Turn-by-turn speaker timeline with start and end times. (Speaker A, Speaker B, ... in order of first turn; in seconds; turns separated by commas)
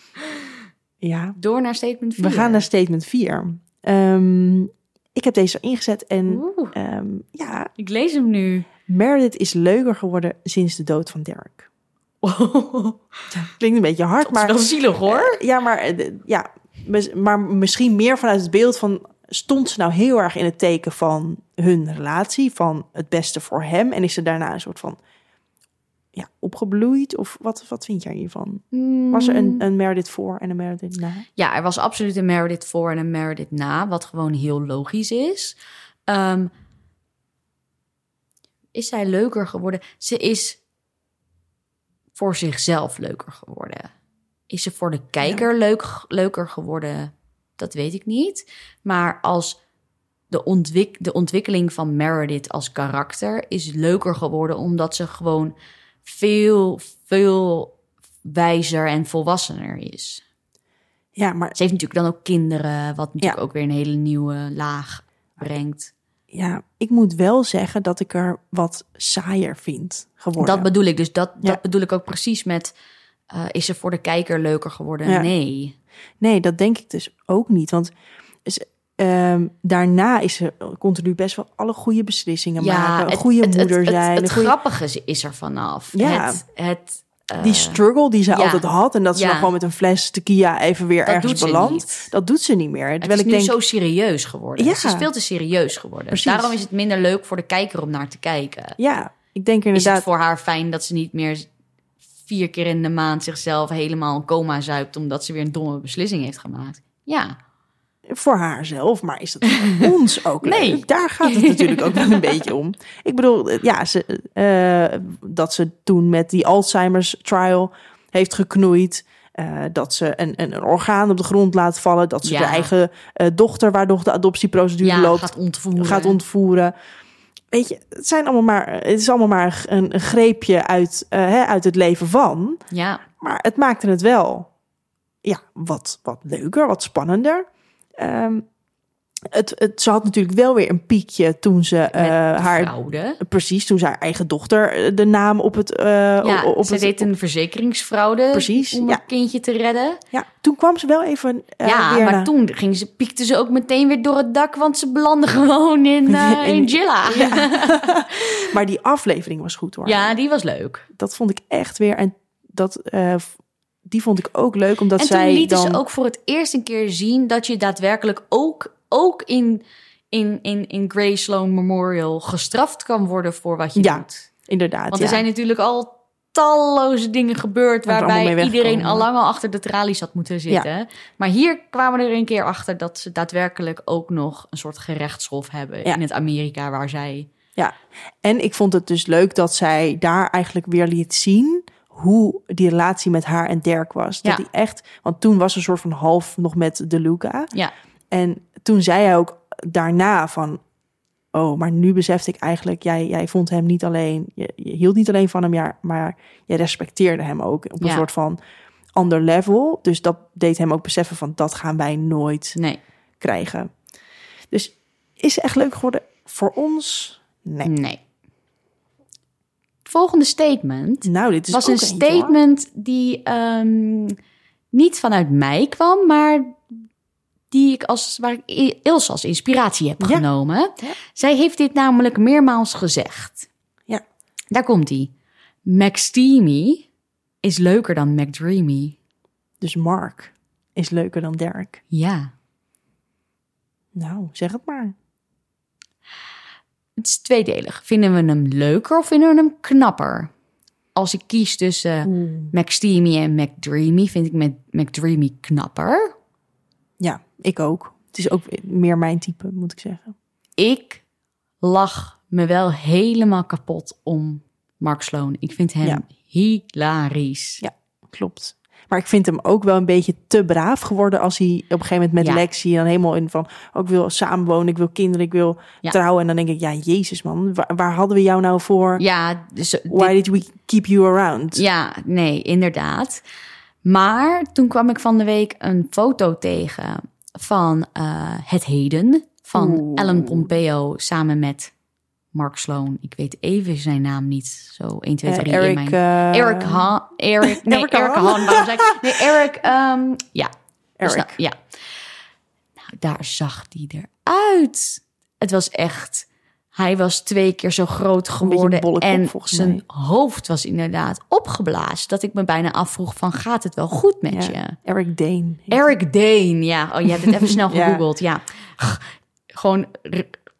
Speaker A: 1.0-1.4, Speaker B: 1.4-2.6, Speaker A: 2.2-7.7, Speaker B: 6.3-6.7, Speaker B: 7.8-8.7, Speaker A: 8.9-11.7, Speaker B: 12.2-13.5, Speaker A: 13.3-25.0, Speaker B: 14.2-15.4, Speaker A: 26.1-31.2, Speaker B: 28.7-29.6, Speaker B: 31.4-35.5, Speaker B: 36.1-36.5, Speaker B: 38.7-40.6, Speaker B: 42.1-43.9, Speaker B: 44.5-49.6, Speaker B: 50.3-60.2, Speaker A: 61.1-61.5, Speaker B: 61.5-65.9, Speaker A: 66.3-70.7, Speaker B: 70.4-72.7, Speaker B: 73.3-75.8, Speaker A: 76.2-77.9, Speaker A: 78.4-84.5, Speaker B: 82.6-87.8, Speaker A: 85.9-86.4, Speaker A: 87.4-93.5, Speaker B: 88.3-89.5, Speaker B: 91.0-92.1, Speaker B: 93.0-98.8, Speaker A: 94.6-95.1, Speaker A: 96.1-96.6, Speaker A: 98.8-100.0, Speaker B: 99.7-101.5, Speaker B: 102.2-107.4, Speaker A: 108.1-126.7, Speaker B: 109.6-109.9, Speaker B: 110.4-112.4, Speaker B: 122.2-122.7, Speaker B: 124.8-126.2, Speaker A: 127.5-132.6, Speaker B: 132.7-133.0, Speaker A: 133.2-134.5, Speaker A: 135.2-137.5, Speaker A: 138.0-138.4, Speaker A: 139.2-147.1, Speaker B: 141.9-143.2, Speaker B: 146.2-150.0, Speaker A: 148.3-149.0, Speaker A: 150.1-152.3, Speaker B: 151.6-158.5, Speaker A: 156.1-160.2, Speaker B: 159.8-160.8, Speaker A: 160.9-163.3, Speaker A: 163.8-165.8, Speaker B: 165.0-174.2, Speaker A: 173.8-175.2, Speaker B: 174.9-187.3, Speaker A: 177.9-179.1, Speaker A: 187.6-197.5, Speaker A: 198.1-200.6, Speaker A: 201.3-208.4, Speaker A: 208.9-212.6, Speaker B: 212.6-212.8, Speaker A: 213.2-213.7, Speaker A: 214.5-217.7, Speaker B: 217.6-218.0, Speaker B: 219.8-224.2, Speaker A: 221.0-222.4, Speaker B: 224.7-226.6, Speaker B: 227.5-233.5, Speaker A: 230.0-230.2, Speaker B: 234.5-235.1, Speaker B: 235.6-236.9, Speaker B: 237.4-238.9, Speaker A: 239.6-241.8, Speaker B: 241.9-242.3, Speaker A: 243.9-244.9, Speaker B: 247.0-250.3, Speaker B: 250.9-256.1, Speaker A: 252.0-252.5, Speaker A: 257.0-260.1, Speaker B: 260.6-261.0, Speaker B: 261.6-267.6, Speaker A: 267.6-279.0, Speaker B: 279.0-280.1, Speaker A: 279.9-281.6, Speaker B: 281.5-283.2, Speaker B: 283.8-291.7, Speaker A: 289.5-290.5, Speaker B: 292.3-300.5, Speaker A: 295.2-296.9, Speaker A: 297.4-299.2, Speaker A: 301.0-301.4, Speaker B: 301.0-301.6, Speaker B: 302.9-314.8, Speaker A: 308.4-309.8, Speaker A: 314.3-315.9, Speaker B: 315.7-320.4, Speaker A: 317.2-318.0